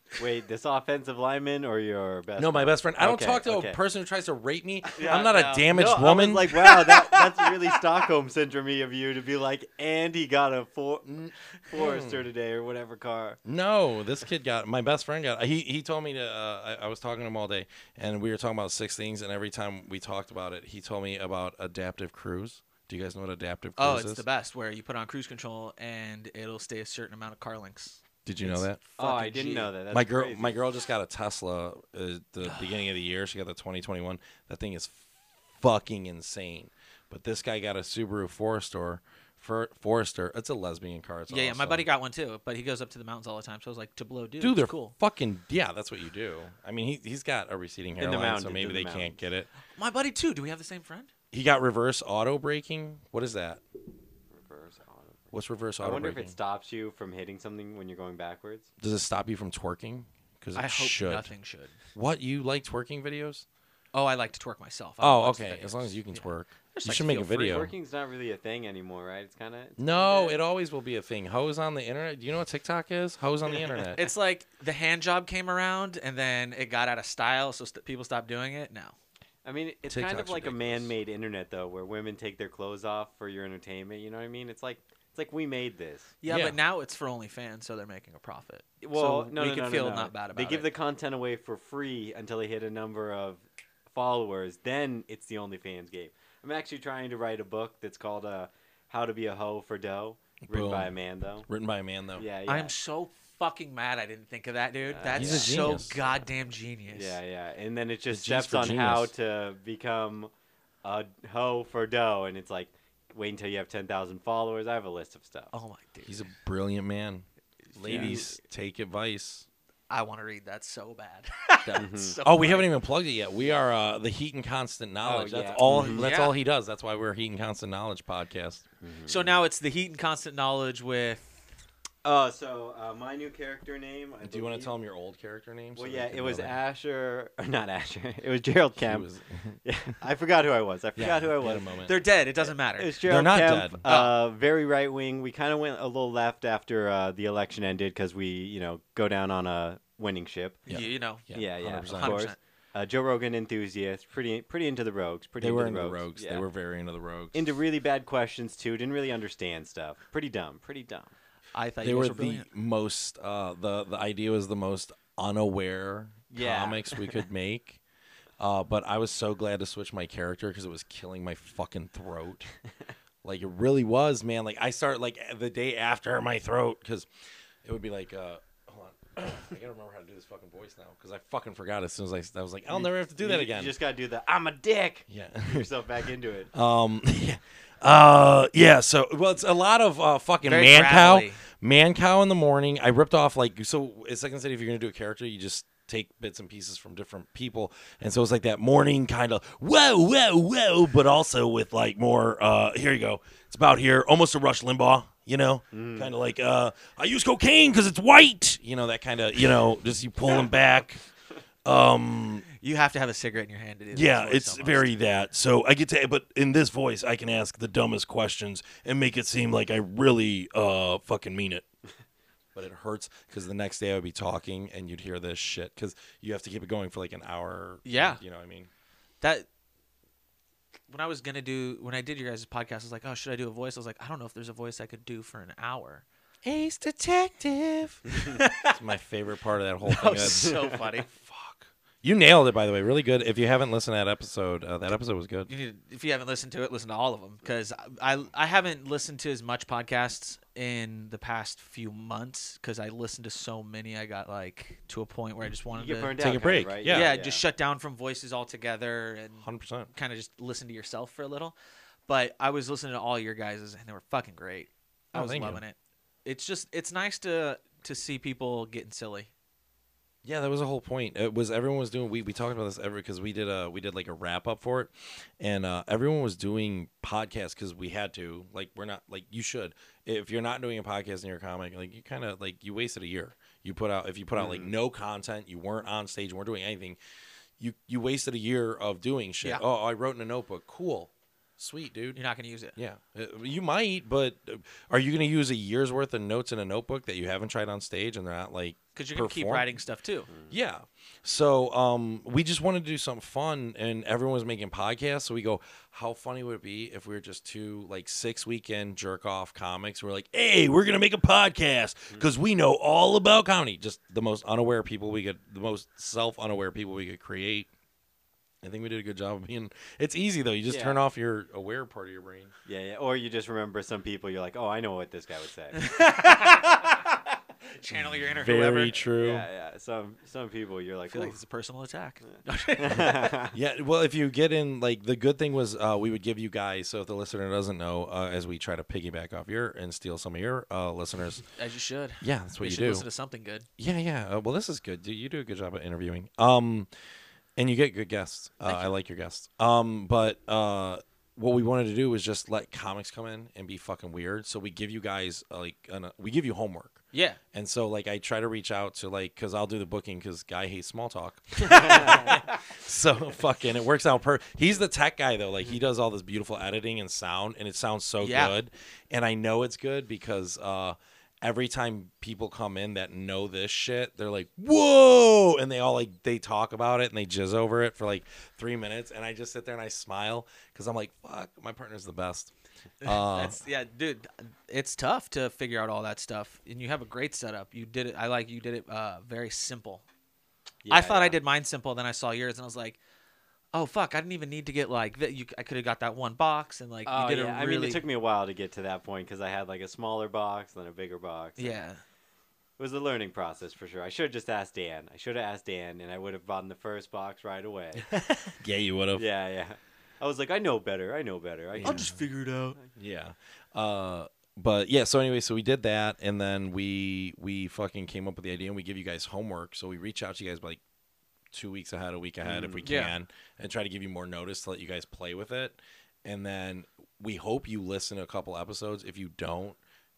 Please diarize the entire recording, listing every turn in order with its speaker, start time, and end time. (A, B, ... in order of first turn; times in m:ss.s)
0:00.2-0:03.8 A
0:02.4-0:07.0 B
0:04.9-0:05.7 C
0:05.0-0:11.2 A
0:11.1-0:12.2 B
0:11.7-0:13.4 A
0:13.5-0:24.2 B
0:23.8-0:29.7 C
0:28.2-0:28.8 B
0:29.0-0:30.6 A
0:29.9-0:41.8 B
0:32.4-0:32.7 C
0:41.3-0:44.9 C
0:44.4-0:49.5 B
0:48.0-0:49.2 A
0:49.7-0:51.1 C
0:51.3-0:53.6 B
0:54.3-0:58.7 A
0:55.3-0:56.4 B
0:58.8-1:01.3 B
1:00.6-1:01.8 C
1:01.9-1:03.5 B
1:03.9-1:07.6 C
1:05.0-1:07.7 B
1:07.4-1:10.4 A
1:09.8-1:14.1 B
1:13.9-1:19.0 C
1:19.4-1:26.2 A
1:19.9-1:20.9 B
1:26.2-1:30.7 C
1:26.3-1:26.6 B
1:28.8-1:41.5 A
1:40.5-1:40.9 B
1:41.5-1:42.3 B
1:42.2-1:42.7 A
1:42.5-1:47.2 C
1:44.9-1:45.8 A
1:45.1-1:46.0 B
1:46.9-1:50.3 A
1:48.1-1:49.1 B
1:50.8-1:55.5 A
1:55.5-1:56.2 C
1:56.0-1:59.5 B
1:57.8-1:58.2 C
1:57.9-1:58.2 A
1:59.9-2:02.7 C
2:01.7-2:02.2 A
2:02.2-2:08.6 B
2:05.0-2:06.1 A
2:05.7-2:06.4 C
2:08.8-2:09.4 A
2:09.1-2:11.4 C
2:12.0-2:14.7 A
2:14.2-2:16.6 B
2:15.8-2:19.1 A
2:18.8-2:19.6 B
2:19.6-2:21.7 A
2:21.0-2:22.0 B
2:21.9-2:23.0 C
2:22.4-2:30.6 A
2:23.0-2:23.8 B
2:23.9-2:24.2 C
2:30.7-2:31.2 C
2:30.7-2:32.2 B
2:31.3-2:36.4 A
2:31.9-2:32.4 C
2:35.4-2:37.5 B
2:37.3-2:41.1 A
2:41.5-2:42.5 C
2:41.8-2:47.8 B
2:46.3-2:47.2 A
2:48.4-2:52.5 B
2:53.2-2:57.1 B
2:57.6-3:03.8 B
3:02.7-3:06.5 A
3:05.1-3:05.8 B
3:06.5-3:31.0 B
3:10.4-3:11.4 C
3:25.7-3:26.1 A
3:31.6-3:32.4 B
3:32.5-3:35.0 C
3:33.9-3:41.7 B
3:42.6-3:48.7 B
3:47.8-3:48.2 C
3:49.2-3:49.5 C
3:50.9-3:56.0 C
3:56.4-4:05.5 B
3:58.1-3:58.8 C
3:59.9-4:01.1 C
4:00.0-4:00.8 A
4:05.5-4:16.3 C
4:15.7-4:17.4 A
4:16.2-4:17.1 B
4:16.8-4:21.6 C
4:19.4-4:19.9 B
4:22.1-4:29.3 C
4:25.1-4:25.6 B
4:30.2-4:47.0 B
4:44.4-4:44.7 A
4:47.6-4:52.2 B
4:52.1-4:52.8 C
4:52.8-4:59.7 B
4:59.0-5:00.3 C
5:00.5-5:17.7 B
5:18.6-5:22.5 B
5:20.7-5:21.0 A
5:22.7-5:25.9 A
5:25.7-5:27.2 C
5:27.7-5:29.1 C
5:28.2-5:29.5 B
5:29.2-5:31.4 A
5:31.1-5:33.4 C
5:32.8-5:33.6 A
5:33.5-5:41.4 B
5:41.6-5:43.7 C
5:42.2-5:43.1 B
5:43.8-5:46.9 B
5:47.6-5:57.0 B
5:48.6-5:49.0 C
5:57.1-5:57.4 C
5:57.5-6:23.6 B
6:01.7-6:02.3 C
6:01.8-6:02.1 A
6:08.2-6:08.6 C
6:23.0-6:30.0 C
6:30.8-6:31.4 A
6:30.9-6:33.0 C
6:33.7-6:38.0 C
6:37.1-6:41.8 A
6:41.6-6:42.0 C
6:42.8-6:48.1 A
6:48.1-6:48.6 C
6:48.6-6:49.2 B
6:49.2-6:52.2 A
6:51.8-6:52.2 B
6:51.8-6:52.8 C
6:53.0-7:00.8 B
7:01.5-7:09.8 B
7:02.4-7:02.9 A
7:02.8-7:03.1 C